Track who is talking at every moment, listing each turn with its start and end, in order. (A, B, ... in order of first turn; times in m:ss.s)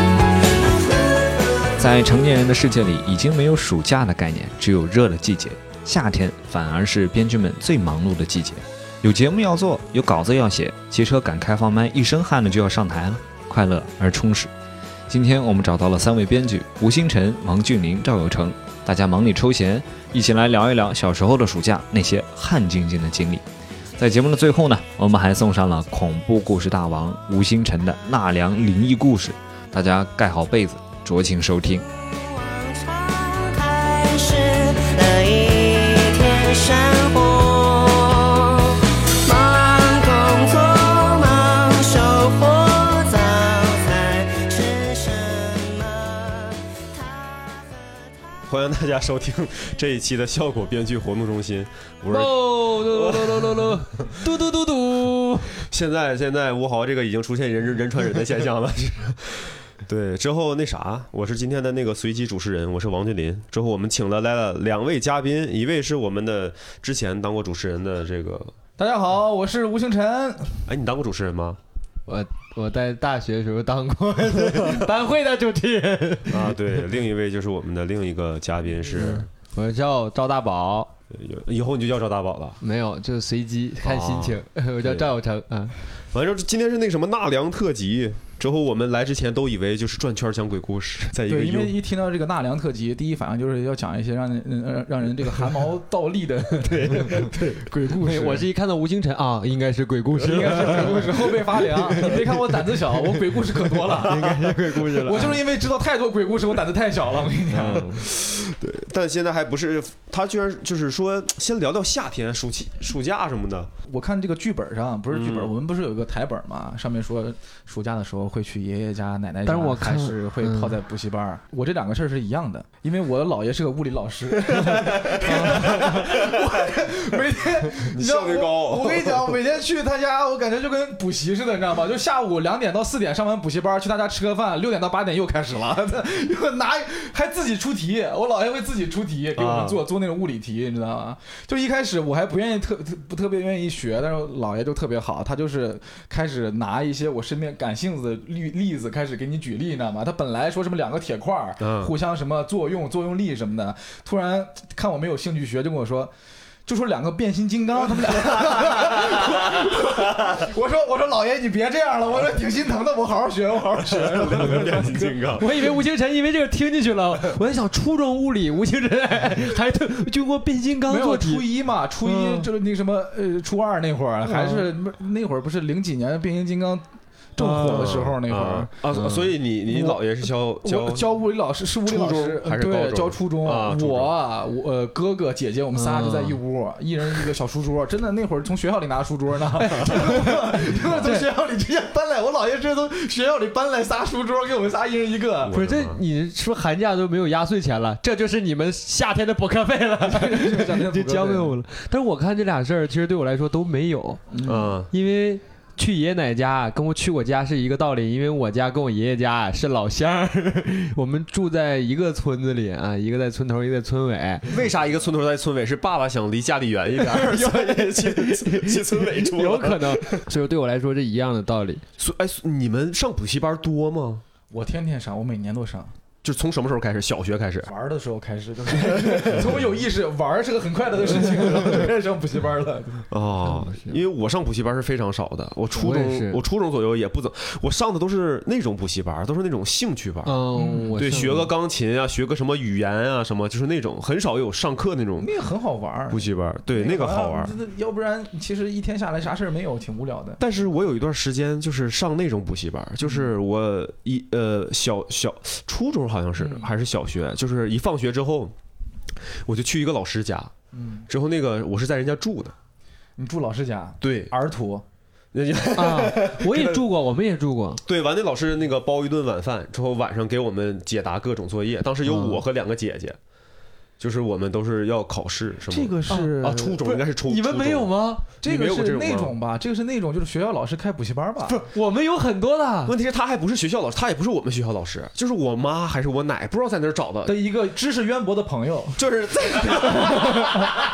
0:01.8-0:14.5 A
0:15.1-0:23.4 A
0:24.0-0:31.8 A
0:32.0-0:48.4 B
0:48.5-0:53.8 C
0:52.1-0:55.6 D
0:55.6-1:08.5 C
1:08.8-1:10.7 E
1:10.7-1:11.6 C
1:12.1-1:16.8 D
1:16.3-1:19.3 C
1:18.9-1:20.9 D
1:21.1-1:22.6 C
1:22.6-1:25.8 D
1:23.8-1:25.1 C
1:26.1-1:31.8 C
1:31.3-1:38.5 E
1:36.6-1:37.6 C
1:38.0-1:43.2 D
1:40.2-1:41.1 C
1:40.2-1:44.2 E
1:42.0-1:42.2 C
1:43.9-1:45.4 D
1:44.0-1:44.5 C
1:45.0-1:47.9 E
1:47.5-1:48.0 D
1:47.7-1:53.7 C
1:53.9-2:36.1 E
1:55.1-1:55.5 C
1:59.5-2:00.8 D
2:04.4-2:06.5 C
2:07.9-2:09.3 C
2:19.4-2:19.8 C
2:31.6-2:31.9 C
2:36.7-2:45.2 E
2:38.3-2:40.4 C
2:43.8-2:45.7 C
2:45.4-2:51.5 D
2:50.9-2:56.8 E
2:52.0-2:52.5 D
2:54.3-2:54.7 D
2:57.4-2:58.8 E
2:57.4-2:58.0 D
2:57.6-3:01.2 C
2:58.9-2:59.3 D
2:59.7-3:15.6 E
3:01.9-3:04.1 C
3:05.8-3:06.4 D
3:09.6-3:10.4 D
3:09.7-3:10.0 C
3:10.8-3:11.1 C
3:10.9-3:11.3 D
3:15.4-3:16.0 C
3:15.5-3:24.4 D
3:20.0-3:21.6 E
3:24.3-3:24.8 E
3:24.4-3:24.9 C
3:24.9-3:34.5 D
3:34.5-3:40.2 C
3:36.9-3:41.8 D
3:42.0-3:44.2 C
3:44.5-3:45.9 E
3:46.2-3:47.7 C
3:47.7-3:53.1 E
3:48.7-3:49.6 C
3:53.1-4:00.4 C
3:53.4-3:54.0 D
3:55.7-3:56.4 D
4:00.3-4:01.5 D
4:00.5-4:01.0 E
4:01.0-4:05.3 C
4:05.2-4:10.4 E
4:06.1-4:07.5 C
4:10.4-4:18.5 C
4:13.0-4:13.3 E
4:16.4-4:16.7 E
4:19.4-4:20.5 C
4:20.7-4:21.1 E
4:21.1-4:22.5 C
4:23.2-4:24.8 E
4:24.0-4:24.3 C
4:25.3-4:26.8 C
4:25.7-4:27.8 D
4:27.9-4:33.2 C
4:32.0-4:32.4 D
4:34.0-4:39.3 C
4:35.7-4:36.8 E
4:36.1-4:38.3 D
4:38.4-4:41.6 E
4:41.5-4:43.0 D
4:42.9-4:47.4 C
4:47.2-4:49.0 E
4:49.0-4:50.7 C
4:49.9-4:50.6 E